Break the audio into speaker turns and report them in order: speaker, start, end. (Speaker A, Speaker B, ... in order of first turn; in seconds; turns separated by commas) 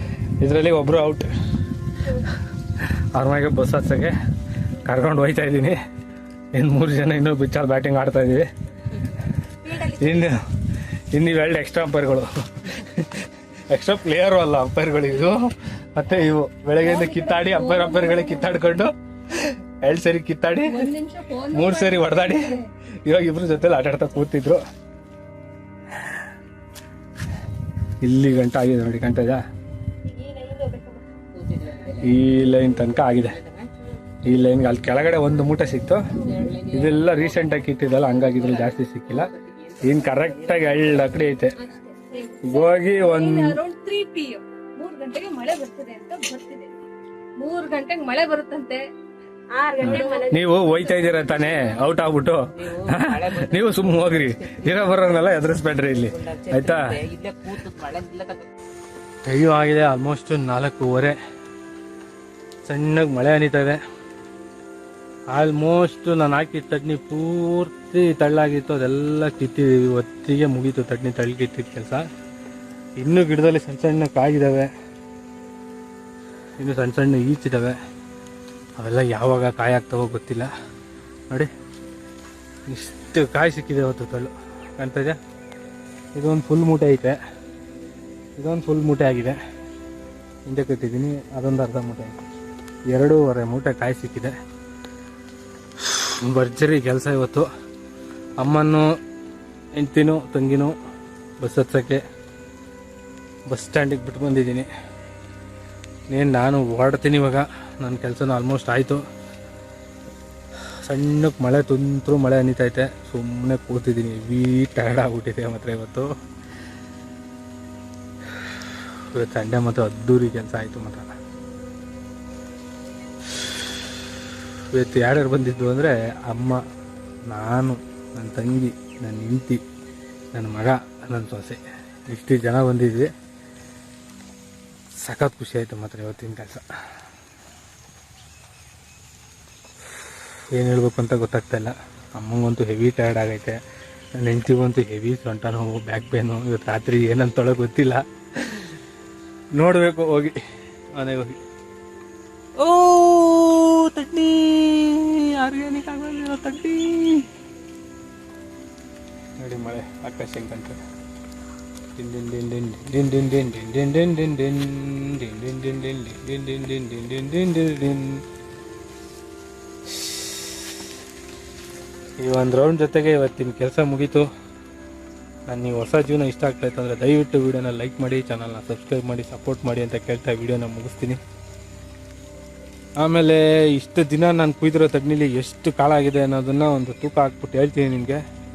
Speaker A: 0.4-1.3, Speaker A: 3.1-4.1, Speaker A: 4.9-5.8, Speaker A: 6.5-8.5, Speaker B: 9.7-10.0, Speaker A: 9.9-10.4, Speaker A: 11.1-15.4, Speaker A: 15.9-20.8, Speaker C: 16.8-18.6, Speaker C: 20.6-22.7, Speaker A: 21.5-24.6, Speaker A: 28.0-29.4, Speaker B: 30.4-30.8, Speaker B: 31.3-33.7, Speaker A: 32.0-33.4, Speaker A: 34.3-36.1, Speaker B: 36.1-41.2, Speaker A: 36.7-39.3, Speaker A: 39.8-41.5, Speaker C: 41.6-46.8, Speaker A: 42.4-43.6, Speaker C: 47.4-48.8, Speaker B: 49.5-50.4, Speaker C: 49.8-51.8, Speaker A: 49.8-56.8, Speaker B: 52.5-55.2, Speaker B: 55.9-58.4, Speaker A: 59.2-61.2, Speaker A: 62.7-63.8, Speaker A: 65.3-72.0, Speaker A: 73.0-74.7, Speaker A: 76.6-77.8, Speaker A: 78.8-80.5, Speaker A: 82.7-85.2, Speaker A: 86.2-87.2, Speaker A: 88.4-89.4, Speaker A: 90.5-92.2, Speaker A: 92.9-94.3, Speaker A: 95.8-97.5, Speaker A: 98.4-98.9, Speaker A: 99.8-100.7, Speaker A: 101.4-102.0, Speaker A: 103.5-104.7, Speaker A: 106.1-109.0, Speaker A: 110.9-116.1, Speaker A: 119.1-121.1, Speaker A: 124.7-126.6, Speaker A: 127.3-129.6, Speaker A: 130.3-133.1, Speaker A: 135.0-136.6, Speaker A: 140.5-143.6, Speaker A: 144.2-148.7, Speaker A: 149.6-150.4, Speaker A: 151.0-151.4, Speaker A: 152.6-157.3, Speaker A: 159.4-160.8, Speaker A: 162.0-168.2, Speaker A: 172.2-174.3, Speaker A: 175.5-181.2, Speaker A: 183.0-188.2